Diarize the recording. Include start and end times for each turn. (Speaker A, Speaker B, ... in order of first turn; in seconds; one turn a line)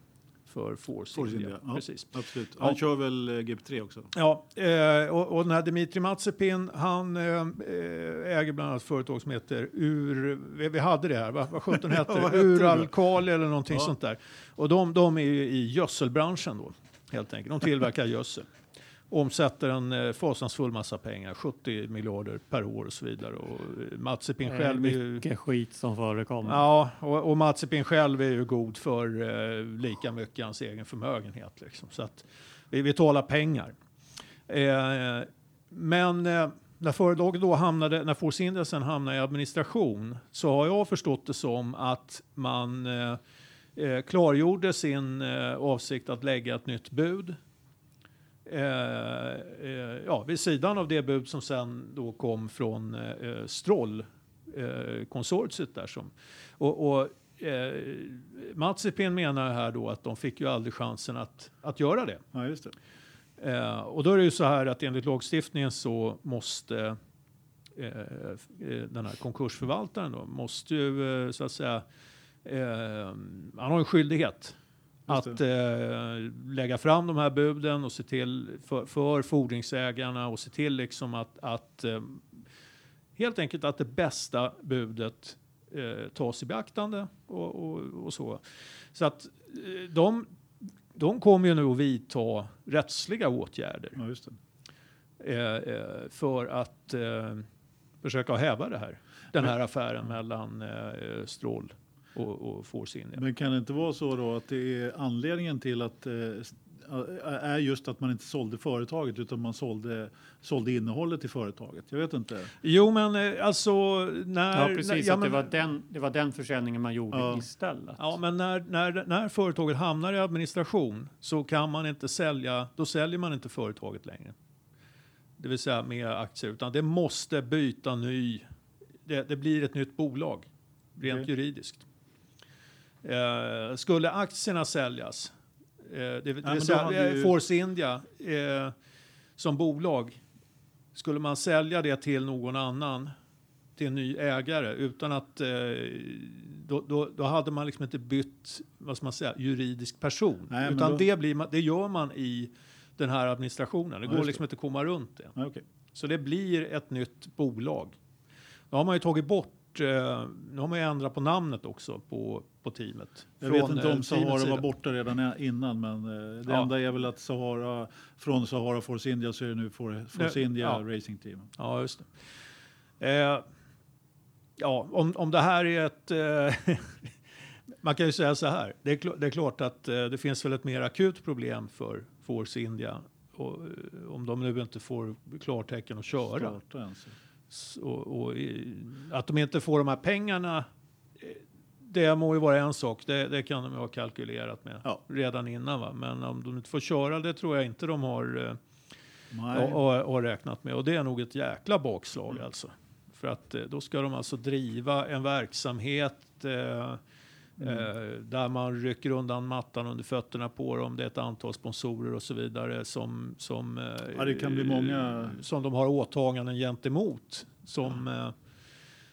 Speaker A: 0.5-2.8
Speaker B: 1.1-4.1
Speaker A: 4.1-18.5
Speaker B: 11.7-12.9
Speaker A: 19.1-25.2
Speaker C: 24.4-26.6
Speaker A: 26.4-33.7
Speaker A: 34.5-43.2
Speaker A: 43.8-47.4
Speaker A: 48.5-62.2
Speaker B: 62.3-62.7
Speaker A: 63.4-67.0
Speaker A: 67.8-71.8
Speaker A: 72.4-74.6
Speaker B: 75.1-75.4
Speaker A: 75.1-82.4
Speaker A: 83.2-88.4
Speaker A: 88.9-94.0
Speaker B: 93.9-94.4
Speaker A: 95.2-97.5
Speaker A: 98.0-103.2
Speaker B: 103.2-112.5
Speaker A: 112.6-115.5
Speaker C: 114.5-118.1
Speaker B: 117.1-117.4
Speaker A: 118.0-124.3
Speaker A: 125.4-128.4
Speaker A: 129.0-131.8
Speaker B: 131.0-131.3
Speaker A: 133.0-138.7
Speaker B: 136.4-137.3
Speaker A: 139.4-140.2
Speaker A: 140.9-143.1
Speaker A: 143.8-155.3
Speaker B: 150.5-151.1
Speaker B: 154.1-154.4
Speaker B: 155.3-155.6
Speaker A: 155.9-157.9
Speaker A: 158.7-164.7
Speaker B: 163.4-171.5
Speaker A: 170.1-170.8
Speaker A: 171.6-172.1
Speaker A: 173.0-173.4
Speaker A: 174.6-177.1
Speaker A: 177.8-186.6
Speaker B: 186.3-187.1
Speaker A: 187.5-190.7
Speaker A: 191.2-198.6
Speaker B: 199.3-199.8
Speaker A: 199.5-207.0
Speaker B: 207.6-207.9
Speaker A: 207.6-218.3
Speaker B: 214.1-215.4